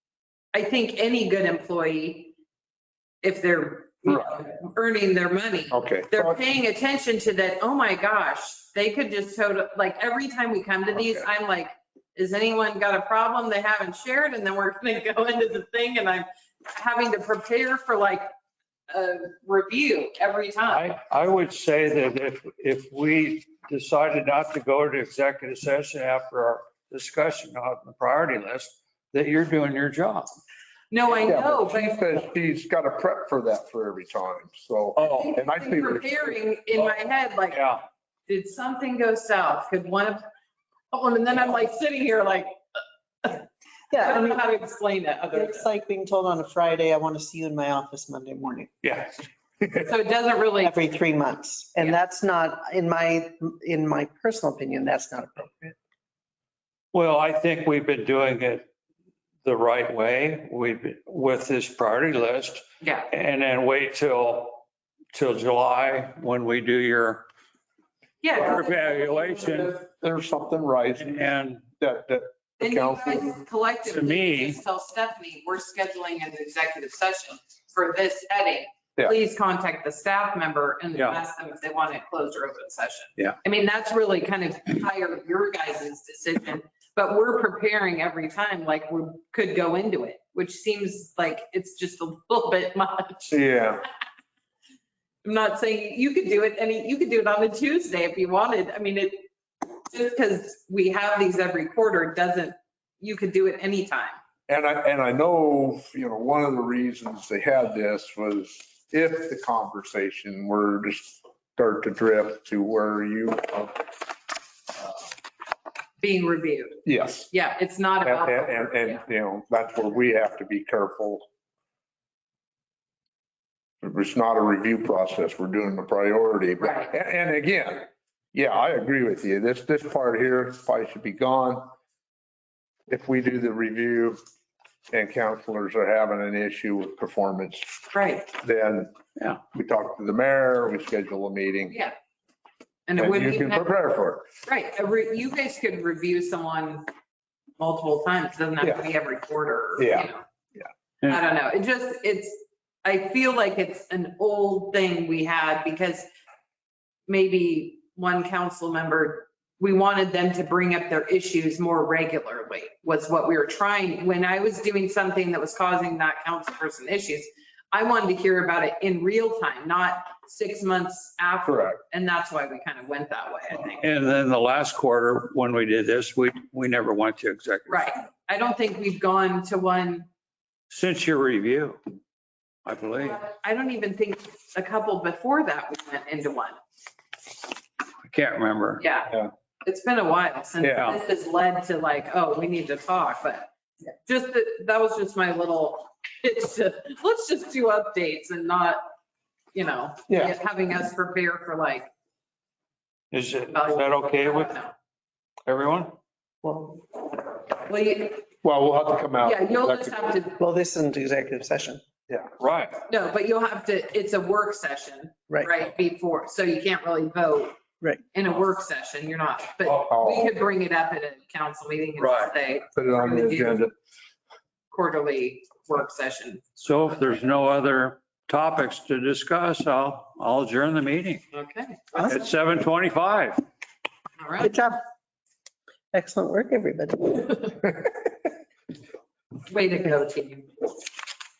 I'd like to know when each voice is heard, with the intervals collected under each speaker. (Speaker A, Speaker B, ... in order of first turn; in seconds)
Speaker A: 0.5-2.3, 3.2-18.3, 18.9-20.9, 30.9-32.3, 35.0-37.6, 38.3-40.2, 40.9-42.6, 43.2-45.7, 49.8-50.8, 62.8-63.1, 68.2-69.8, 72.6-93.3, 95.2-99.2, 99.9-104.2, 116.0-119.0, 126.6-126.9, 137.9-138.3, 141.7-141.9, 142.9-143.7, 144.4-146.9, 147.6-150.2, 151.0-156.1, 157.1-173.8, 177.7-180.1, 183.0-186.6, 188.8-193.5, 194.1-198.8, 199.5-201.9, 203.4-204.7, 207.7-208.3, 209.2-210.4, 212.9-217.6, 218.1-223.7, 224.7-226.4, 231.3-232.2, 234.2-234.6, 239.5-240.5
Speaker B: 4.0-4.4, 5.7-6.4, 10.9-11.2, 31.1-36.4, 69.8-73.4, 93.3-93.8, 104.5-113.9, 116.8-117.3, 118.0-121.2, 123.8-131.7, 132.9-134.2, 134.9-137.7, 138.4-138.9, 139.5-141.8, 143.0-144.2, 149.8-150.7, 171.4-171.8, 190.6-190.9, 200.1-200.3, 208.4-210.2, 219.9-220.3, 222.8-223.7
Speaker C: 20.7-30.4, 35.0-35.4, 37.5-37.8, 48.8-49.9, 56.9-58.7, 59.4-67.2, 68.3-69.8, 71.0-71.7, 73.8-74.6, 80.9-81.2, 173.8-177.9, 180.7-181.8, 182.7-183.2, 188.0-188.8, 203.1-204.5, 205.5-206.0, 212.4-212.8, 222.0-222.3, 226.6-231.2, 232.0-233.4
Speaker D: 43.9-44.4, 45.3-48.7, 50.6-55.8, 206.4-206.9, 210.4-211.8, 234.4-234.8, 235.9-237.5